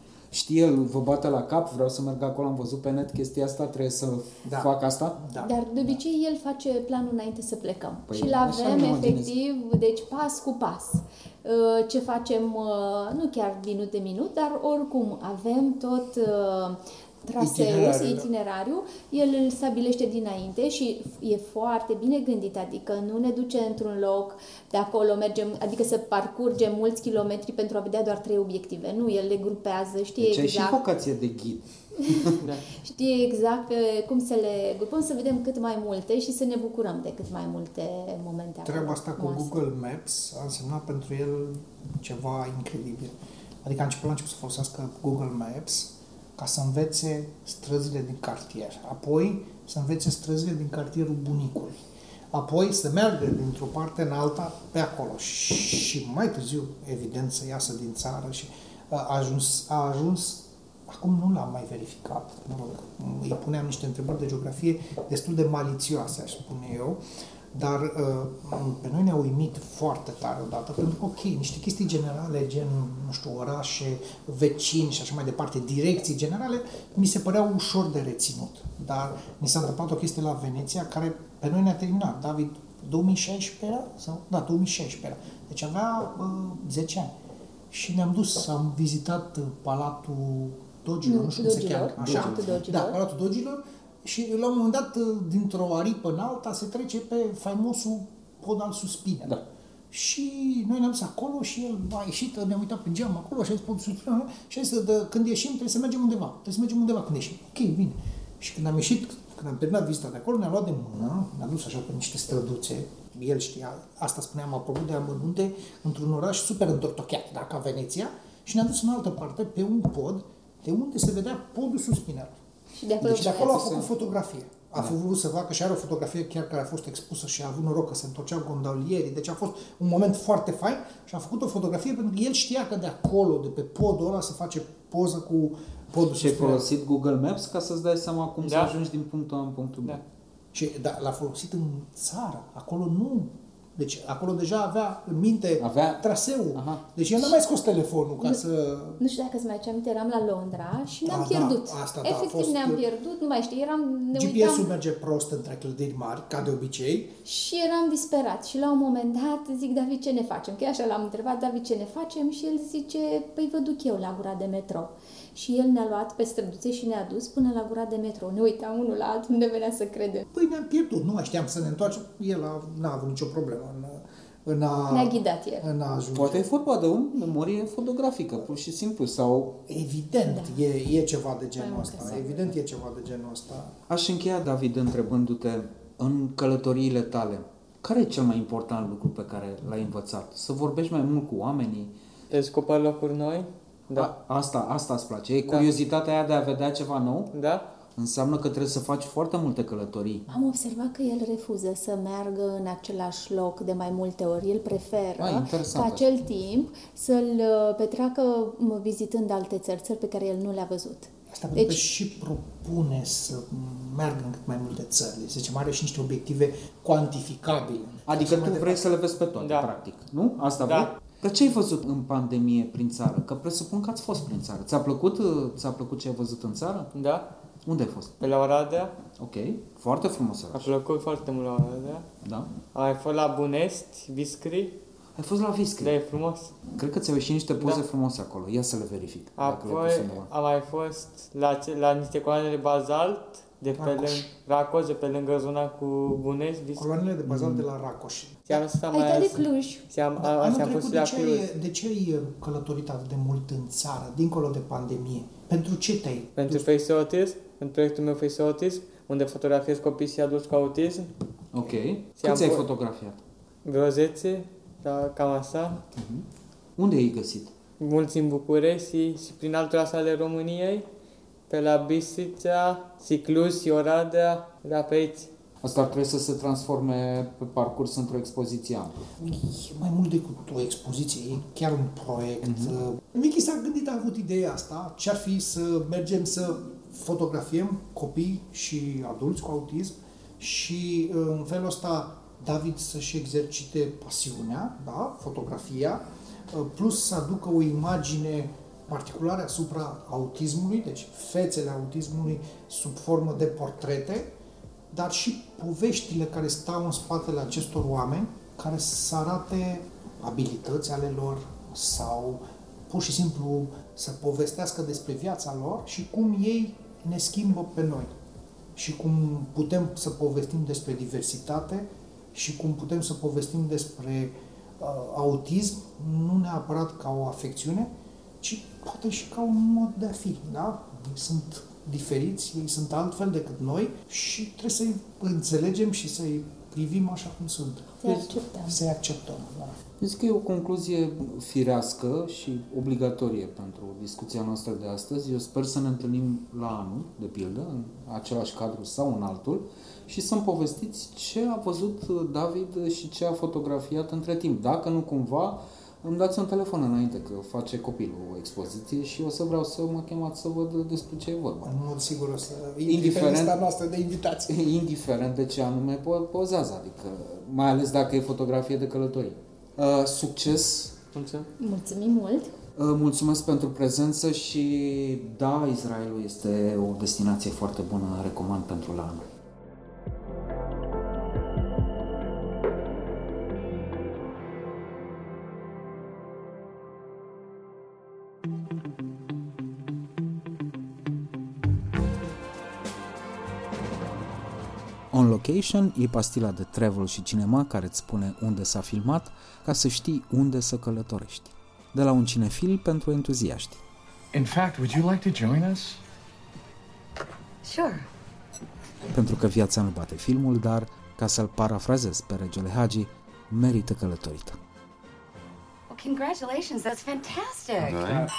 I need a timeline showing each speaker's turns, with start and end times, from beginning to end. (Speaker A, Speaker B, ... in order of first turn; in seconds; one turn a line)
Speaker A: 0.3-5.2
Speaker B: 4.4-6.0
Speaker C: 5.4-30.8
Speaker A: 8.1-9.3
Speaker B: 17.4-18.3
Speaker A: 30.2-32.3
Speaker C: 32.0-39.6
Speaker B: 38.6-67.0
Speaker B: 67.5-87.1
Speaker B: 87.7-122.4
Speaker C: 91.0-93.0
Speaker A: 92.0-92.4
Speaker C: 122.8-123.8
Speaker B: 123.0-136.7
Speaker A: 123.0-123.9
Speaker A: 136.0-140.0
Speaker D: 138.4-138.7
Speaker B: 140.5-149.0
Speaker A: 145.6-146.8
Speaker C: 149.0-154.7
Speaker B: 151.0-152.8
Speaker B: 154.1-157.2
Speaker C: 157.2-170.2
Speaker B: 170.3-176.5
Speaker C: 174.9-175.7
Speaker A: 176.1-179.6
Speaker B: 179.7-183.7
Speaker C: 180.2-180.7
Speaker C: 181.6-182.4
Speaker A: 183.9-191.9
Speaker D: 192.3-194.1
Speaker A: 193.9-197.3
Speaker D: 197.3-197.7
Speaker A: 197.9-200.3
Speaker C: 200.3-211.8
Speaker A: 205.2-206.1
Speaker B: 211.3-218.8
Speaker A: 218.1-226.9
Speaker D: 219.4-219.7
Speaker D: 220.6-220.9
Speaker D: 226.9-227.3
Speaker A: 227.6-228.2
Speaker D: 228.2-228.9
Speaker A: 229.2-230.7
Speaker D: 230.5-232.1
Speaker A: 232.2-232.5
Speaker D: 232.7-234.7
Speaker A: 235.2-235.9
Speaker D: 235.8-236.6
Speaker A: 236.7-240.3
Speaker D: 239.4-246.9
Speaker B: 243.8-244.2
Speaker B: 246.7-248.6
Speaker A: 247.3-247.6
Speaker D: 248.5-251.4
Speaker C: 248.9-249.8
Speaker B: 250.2-256.6
Speaker D: 256.4-261.1
Speaker A: 261.5-263.2
Speaker D: 262.2-262.6
Speaker D: 263.6-265.8
Speaker A: 265.9-266.2
Speaker A: 266.8-267.5
Speaker D: 267.8-270.9
Speaker D: 271.5-275.3
Speaker A: 275.6-279.1
Speaker B: 279.2-304.3
Speaker A: 282.4-282.7
Speaker B: 304.9-318.1
Speaker B: 318.8-327.9
Speaker B: 328.4-339.8
Speaker C: 338.0-338.8
Speaker A: 340.0-361.7
Speaker B: 361.6-364.6
Speaker A: 362.8-363.6
Speaker A: 364.5-370.9
Speaker D: 371.1-371.5
Speaker C: 371.6-372.5
Speaker A: 372.8-379.2
Speaker A: 395.1-403.8
Speaker E: 404.3-406.0
Speaker F: 407.6-408.1
Speaker A: 409.1-414.6
Speaker F: 415.9-418.1
Speaker E: 418.0-418.2